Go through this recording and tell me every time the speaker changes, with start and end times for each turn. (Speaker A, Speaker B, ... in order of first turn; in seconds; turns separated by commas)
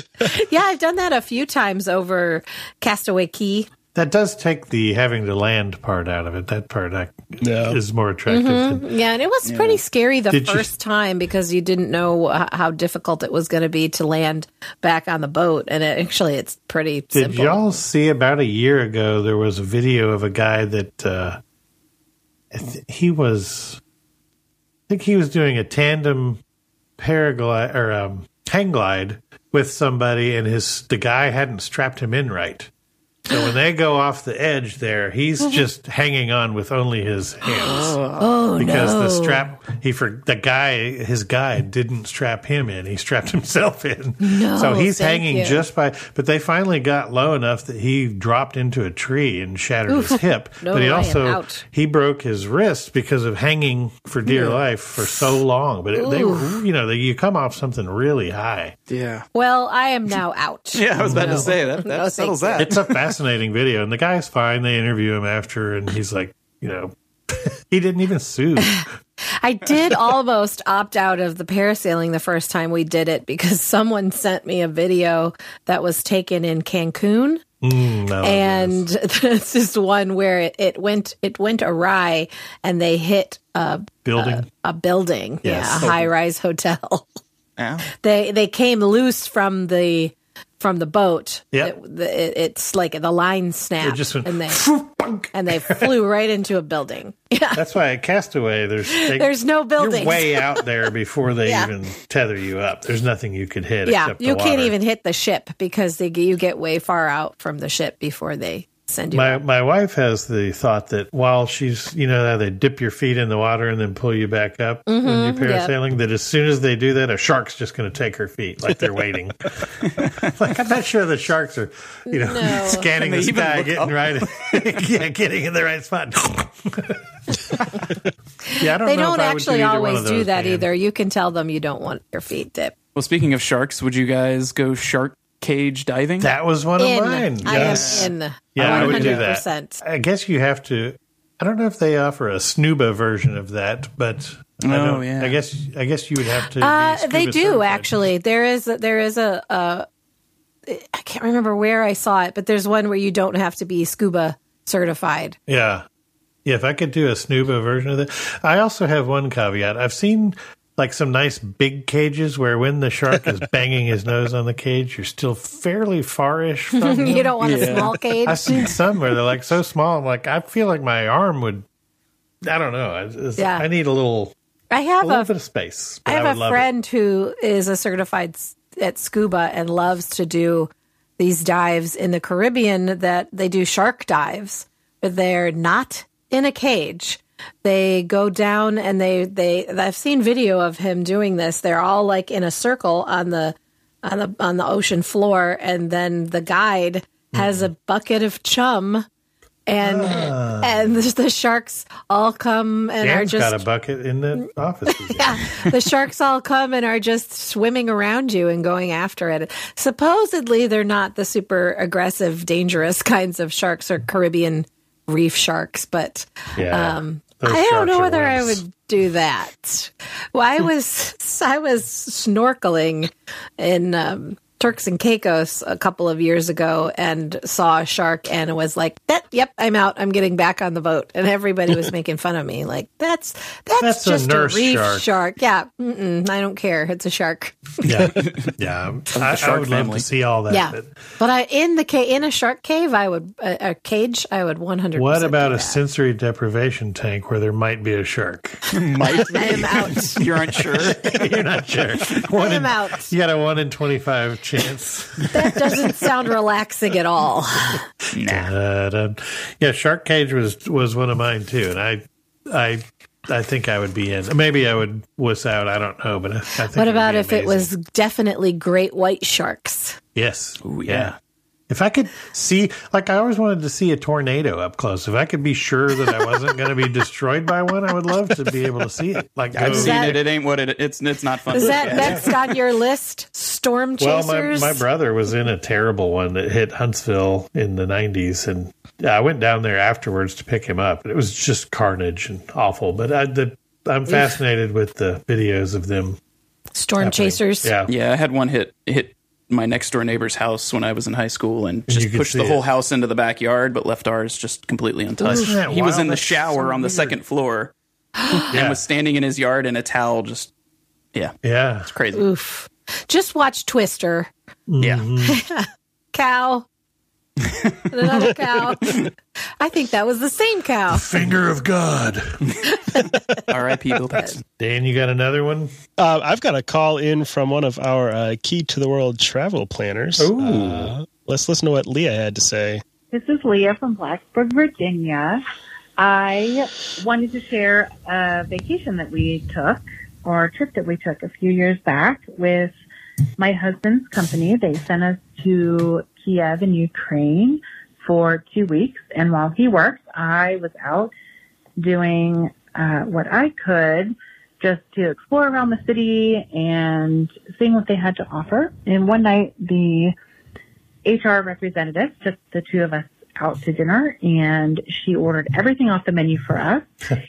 Speaker A: 0.2-3.7, Speaker B: 3.9-8.8, Speaker C: 7.4-7.8, Speaker A: 8.3-17.8, Speaker D: 9.4-9.8, Speaker B: 10.3-10.7, Speaker B: 17.1-21.4, Speaker B: 22.5-23.8, Speaker B: 24.9-26.4, Speaker B: 27.0-32.7, Speaker B: 33.3-38.0, Speaker D: 37.7-38.2, Speaker A: 38.1-39.4, Speaker B: 38.6-58.8, Speaker A: 44.2-45.6, Speaker A: 49.9-51.6, Speaker A: 54.3-54.6, Speaker A: 56.0-56.6, Speaker D: 58.9-59.2, Speaker A: 59.3-62.7, Speaker D: 60.7-62.9, Speaker B: 61.0-61.5, Speaker B: 62.6-68.9, Speaker A: 69.4-77.4, Speaker B: 77.6-78.8, Speaker A: 78.2-87.1, Speaker B: 84.1-84.5, Speaker B: 85.4-86.0, Speaker D: 87.6-87.9, Speaker A: 88.0-94.6, Speaker B: 93.8-95.9, Speaker A: 95.3-97.6, Speaker B: 97.5-104.7, Speaker A: 98.9-100.7, Speaker A: 101.5-101.7, Speaker A: 103.8-109.4, Speaker B: 109.1-128.0, Speaker A: 114.9-115.7, Speaker A: 122.1-122.9, Speaker D: 123.0-124.7, Speaker A: 128.5-132.7, Speaker B: 128.6-130.7, Speaker D: 132.9-136.3, Speaker B: 136.2-147.9, Speaker A: 136.8-139.8, Speaker D: 137.5-139.3, Speaker C: 137.5-138.0, Speaker D: 144.6-145.4, Speaker A: 146.3-149.9, Speaker A: 150.7-155.4, Speaker B: 155.5-155.8, Speaker B: 156.4-171.7, Speaker A: 166.8-168.7, Speaker D: 167.4-167.9, Speaker D: 168.5-168.7, Speaker B: 172.4-174.3, Speaker A: 173.4-173.7, Speaker A: 174.7-175.3, Speaker B: 175.0-176.7, Speaker A: 176.1-199.1, Speaker B: 197.3-197.7, Speaker A: 199.7-203.6, Speaker B: 199.8-200.8, Speaker B: 203.0-205.7, Speaker A: 204.4-237.9, Speaker B: 216.6-218.6, Speaker B: 233.8-235.1, Speaker B: 237.8-240.9, Speaker D: 238.1-238.5, Speaker D: 239.1-240.1, Speaker A: 240.5-245.8, Speaker B: 245.0-248.9, Speaker D: 248.7-251.2, Speaker A: 249.2-250.2, Speaker B: 249.5-256.0, Speaker A: 252.3-253.1, Speaker A: 255.3-257.9, Speaker D: 258.1-258.5, Speaker B: 258.2-267.7, Speaker A: 266.7-270.0, Speaker B: 270.1-271.1, Speaker D: 270.6-271.1, Speaker B: 271.7-280.2, Speaker D: 279.5-282.4, Speaker A: 279.6-280.2, Speaker A: 281.5-284.8, Speaker B: 281.7-282.3, Speaker B: 284.0-296.2, Speaker A: 296.8-297.7, Speaker B: 297.0-297.9, Speaker D: 297.9-307.7, Speaker B: 301.9-302.6, Speaker A: 305.2-305.6, Speaker B: 305.2-307.1, Speaker A: 308.2-308.5, Speaker D: 308.3-310.5, Speaker B: 308.5-308.8, Speaker B: 311.4-311.9, Speaker D: 311.9-312.2, Speaker A: 312.1-314.3, Speaker B: 314.7-315.4, Speaker D: 314.8-315.1, Speaker A: 315.2-316.7, Speaker D: 317.5-317.7, Speaker A: 317.9-319.1, Speaker A: 319.6-321.1, Speaker B: 320.9-322.6, Speaker A: 322.6-323.4, Speaker D: 323.5-324.4, Speaker B: 324.6-325.7, Speaker C: 326.0-332.8, Speaker B: 330.2-330.9, Speaker E: 333.1-335.4, Speaker E: 336.0-342.7, Speaker E: 343.4-351.1, Speaker E: 351.8-360.1, Speaker E: 361.1-366.9